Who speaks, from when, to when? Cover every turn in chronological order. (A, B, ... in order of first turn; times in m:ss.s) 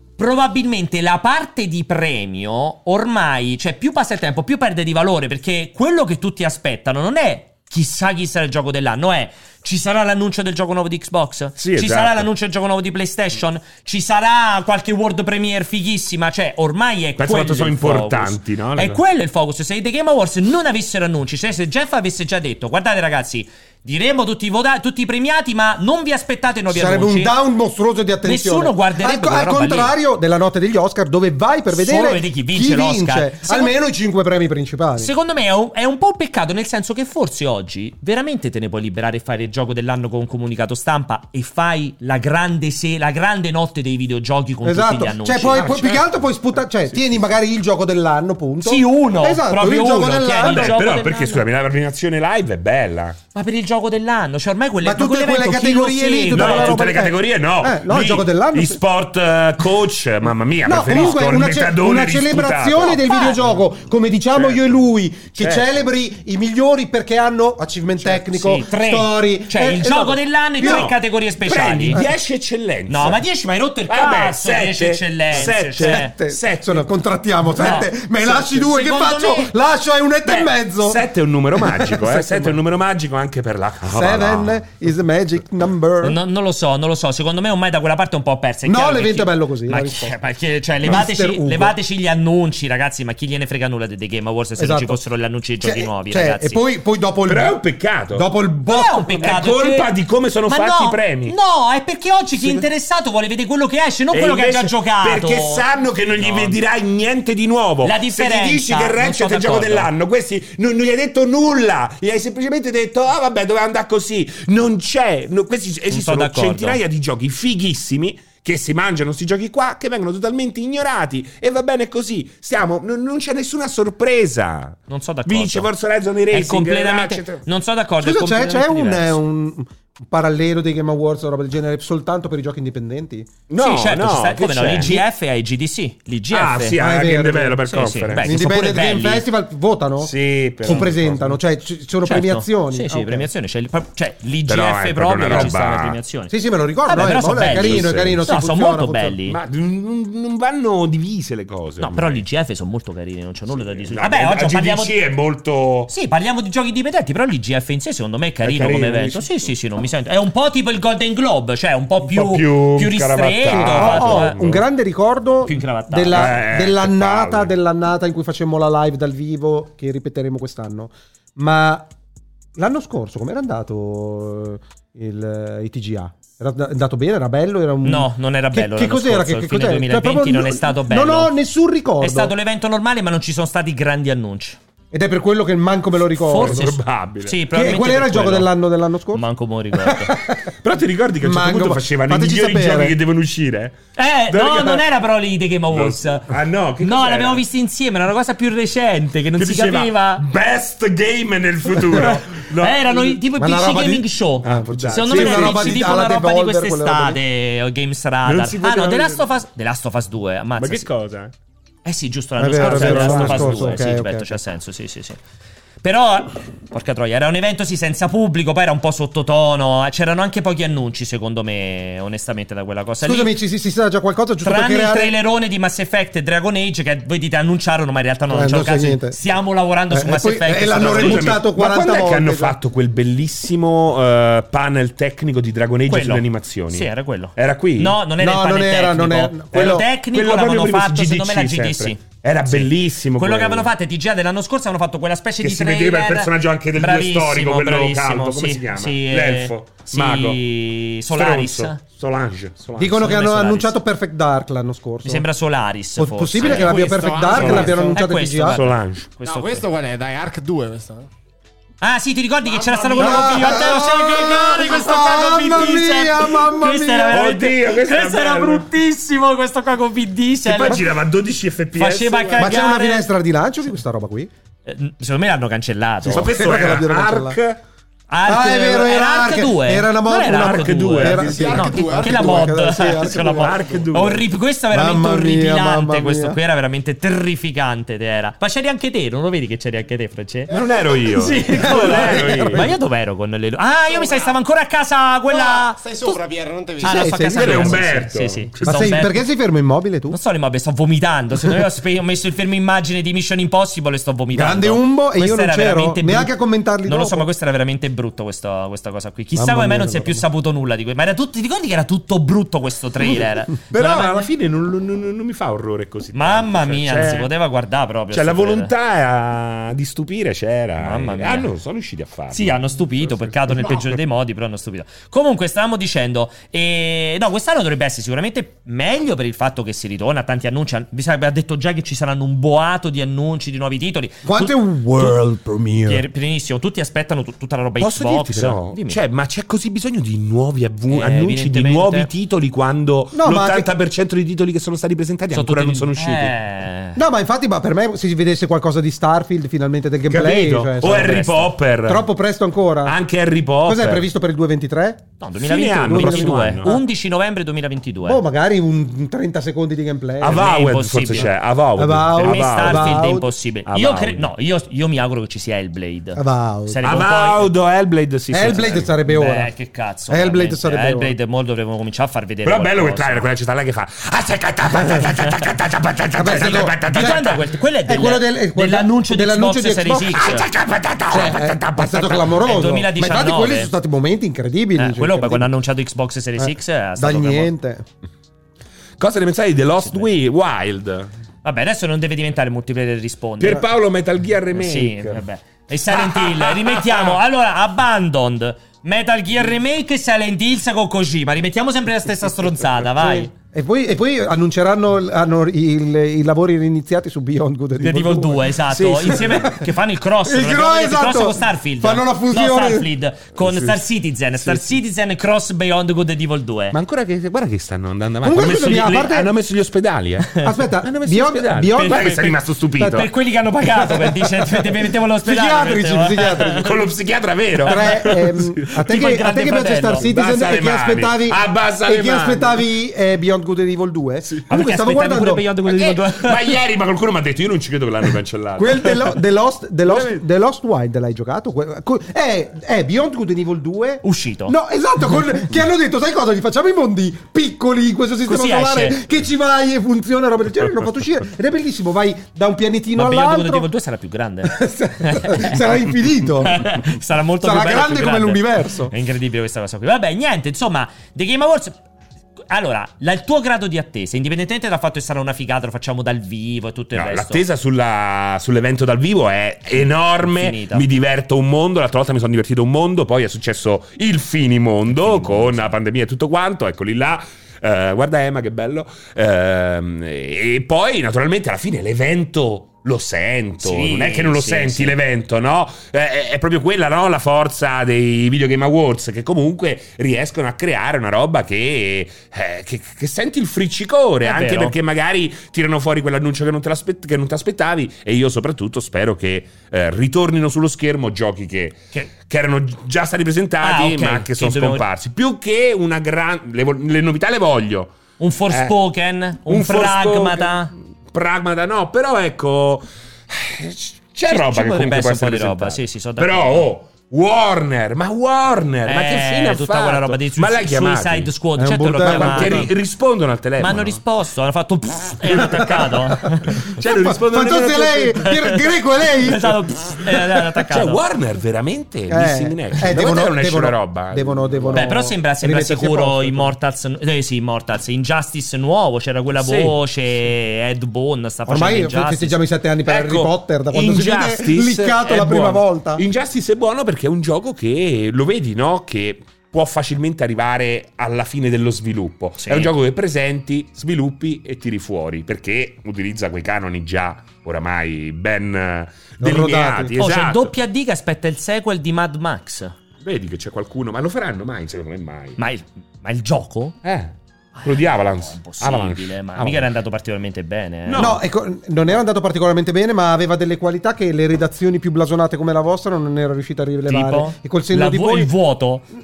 0:00.2-0:27.3 A
0:11.6-0:12.3 B
0:17.2-0:19.0 B
0:26.7-0:35.1 C
0:28.2-0:29.9 A
0:31.7-0:33.7 A
0:35.0-0:45.8 A
0:44.6-0:50.8 C
0:45.6-0:46.1 B
0:46.9-0:47.2 B
0:48.6-0:51.4 A
0:50.4-0:53.2 B
0:53.3-0:56.8 A
0:54.8-0:58.8 C
0:56.3-1:03.4 B
1:00.7-1:10.9 C
1:03.0-1:03.4 A
1:04.3-1:04.7 B
1:05.4-1:05.7 B
1:08.1-1:12.0 A
1:10.6-1:13.2 B
1:12.9-1:16.1 A
1:13.9-1:16.9 B
1:15.4-1:21.0 C
1:17.6-1:19.5 A
1:20.3-1:24.6 B
1:21.6-1:22.6 C
1:23.9-1:26.2 C
1:26.0-1:36.6 A
1:28.6-1:30.1 C
1:30.8-1:31.8 C
1:34.6-1:35.0 C
1:35.6-1:37.6 C
1:37.3-1:38.3 B
1:38.1-1:39.4 C
1:38.7-1:39.9 A
1:39.2-1:41.3 B
1:40.5-1:45.6 A
1:42.4-1:42.6 C
1:44.1-2:07.4 B
1:46.2-1:46.6 A
1:47.8-1:49.9 A
1:55.9-1:56.8 A
2:04.9-2:05.7 A
2:06.3-2:09.2 A
2:08.0-2:13.3 C
2:13.5-2:15.0 B
2:13.6-2:16.8 A
2:16.3-2:18.6 B
2:16.8-2:17.6 C
2:17.7-2:19.2 A
2:18.2-2:23.3 C
2:20.0-2:21.4 B
2:22.0-2:26.3 A
2:24.5-2:26.0 B
2:26.3-2:29.2 C
2:26.9-2:29.4 A
2:27.4-2:28.2 B
2:29.3-2:32.2 B
2:31.8-2:34.9 A
2:33.5-2:35.9 B
2:35.9-2:44.4 A
2:38.4-2:39.5 B
2:42.0-2:44.6 B
2:43.5-2:51.9 C
2:45.5-2:46.3 A
2:46.1-2:47.5 B
2:52.6-3:02.3 C
2:57.8-3:01.3 A
3:02.0-3:04.6 A
3:04.9-3:06.7 C
3:06.2-3:08.5 A
3:06.3-3:07.4 B
3:07.5-3:09.2 C
3:09.1-3:10.1 A
3:09.8-3:10.4 C
3:10.6-3:13.8 B
3:11.2-3:13.0 C
3:14.0-3:16.3 A
3:14.3-3:14.8 B
3:15.7-3:17.4 B
3:16.8-3:20.2 A
3:19.4-3:23.2 B
3:21.9-3:30.9 A
3:23.4-3:27.2 C
3:24.4-3:25.9 B
3:28.2-3:29.3 B
3:30.6-3:31.3 B
3:31.8-3:35.2 A
3:32.4-3:34.4 C
3:32.6-3:33.9 B
3:35.8-3:43.3 A
3:43.0-3:45.2 C
3:44.4-3:51.3 A
3:48.3-3:49.2 C
3:49.9-3:52.6 C
3:50.7-3:58.0 B
3:55.9-4:11.8 A
3:58.2-3:59.9 C
3:59.5-4:03.7 B
4:05.4-4:10.4 B
4:11.1-4:13.0 B
4:12.8-4:15.3 C
4:12.9-4:13.8 A
4:15.0-4:19.6 A
4:16.0-4:18.6 C
4:16.4-4:18.0 D
4:17.3-4:17.9 B
4:18.5-4:19.1 B
4:19.2-4:21.1 D
4:21.8-4:30.8 A
4:22.5-4:23.6 D
4:23.0-4:27.2 C
4:27.1-4:28.7 B
4:30.5-4:32.4 B
4:31.8-4:33.1 A
4:32.4-4:34.3 C
4:34.7-4:36.3 A
4:36.0-4:37.6 B
4:36.2-4:37.4 C
4:38.1-4:50.5 A
4:38.3-4:43.7 C
4:40.3-4:41.7 B
4:41.2-4:42.6 D
4:43.4-4:44.3 B
4:44.7-4:46.4 C
4:50.5-4:52.7 B
4:51.2-4:56.2 A
4:51.5-4:52.7 C
4:53.9-4:54.4 D
4:55.3-4:57.3 D
4:56.8-4:59.2 A
4:56.8-4:57.9 C
4:57.4-4:58.6 B
4:58.6-5:00.2 C
5:00.1-5:14.2 A
5:04.3-5:07.3 C
5:09.4-5:10.3 C
5:13.7-5:17.3 B
5:13.8-5:14.0 C
5:16.1-5:18.7 A
5:18.1-5:23.9 B
5:20.8-5:21.5 A
5:22.3-5:35.2 A
5:34.2-5:36.0 C
5:35.9-5:39.0 A
5:37.8-5:46.4 B
5:40.9-5:42.1 A
5:43.1-5:43.7 C
5:45.3-5:47.0 A
5:47.0-5:51.3 C
5:50.1-5:52.1 B
5:50.8-5:51.5 A
5:51.9-5:53.0 C
5:52.8-5:54.1 B
5:53.6-5:55.0 C
5:55.2-5:58.2 A
5:55.4-5:56.7 B
5:55.9-5:56.8 C
5:58.1-6:00.6 C
6:00.2-6:03.1 B
6:00.3-6:01.3 A
6:01.1-6:03.3 C
6:02.2-6:07.5 A
6:03.7-6:04.3 B
6:06.2-6:06.8 C
6:06.8-6:08.9 B
6:08.3-6:09.5 C
6:09.1-6:13.2 A
6:10.1-6:11.1 C
6:12.4-6:17.4 B
6:14.7-6:15.0 C
6:16.2-6:17.3 C
6:16.3-6:20.5 A
6:17.8-6:20.4 C
6:20.1-6:22.4 B
6:21.1-6:25.5 C
6:22.4-6:23.7 A
6:24.8-6:27.5 A
6:27.0-6:27.8 C
6:29.0-6:31.1 B
6:29.8-6:30.1 A
6:31.4-6:33.6 A
6:33.4-6:35.2 B
6:34.6-6:43.3 A
6:35.9-6:37.2 B
6:43.0-6:49.6 C
6:47.8-6:56.8 A
6:50.3-6:52.9 C
6:53.4-6:53.8 B
6:54.4-6:54.7 B
6:56.7-7:03.1 B
6:58.2-6:59.3 C
7:00.4-7:03.1 C
7:01.8-7:02.0 A
7:02.9-7:06.8 A
7:03.7-7:04.7 C
7:05.2-7:06.6 C
7:06.5-7:08.0 B
7:07.7-7:08.1 A
7:07.7-7:15.4 C
7:08.8-7:10.0 A
7:10.0-7:12.7 B
7:14.5-7:16.6 A
7:15.6-7:19.1 B
7:18.6-7:33.7 C
7:19.9-7:20.2 B
7:24.0-7:24.5 A
7:28.3-7:29.0 A
7:33.0-7:35.6 A
7:34.4-7:36.8 C
7:36.4-7:41.8 A
7:37.4-7:38.9 C
7:42.5-7:47.4 A
7:47.0-8:28.0 B
7:50.2-7:50.8 A
7:54.9-7:55.7 A
8:03.6-8:05.0 A
8:14.2-8:14.8 A
8:23.6-8:24.8 A
8:28.2-8:30.7 A
8:28.5-8:28.8 B
8:29.5-8:41.3 B
8:34.3-8:36.7 A
8:38.9-8:42.7 A
8:41.6-8:42.7 C
8:42.0-8:44.0 B
8:43.6-8:46.7 A
8:46.7-8:48.3 B
8:46.8-8:49.4 C
8:49.2-8:51.0 A
8:50.7-8:54.9 B
8:52.1-8:56.5 C
8:54.7-9:02.4 A
8:59.4-8:59.8 B
9:01.5-9:06.0 C
9:02.9-9:20.5 B
9:12.4-9:12.7 A
9:19.2-9:19.9 C
9:20.0-9:22.8 A
9:23.0-9:25.4 B
9:25.4-9:26.8 A
9:26.8-9:29.7 B
9:27.6-9:31.2 A
9:30.9-9:31.2 B
9:31.0-9:38.3 C
9:36.9-9:38.8 A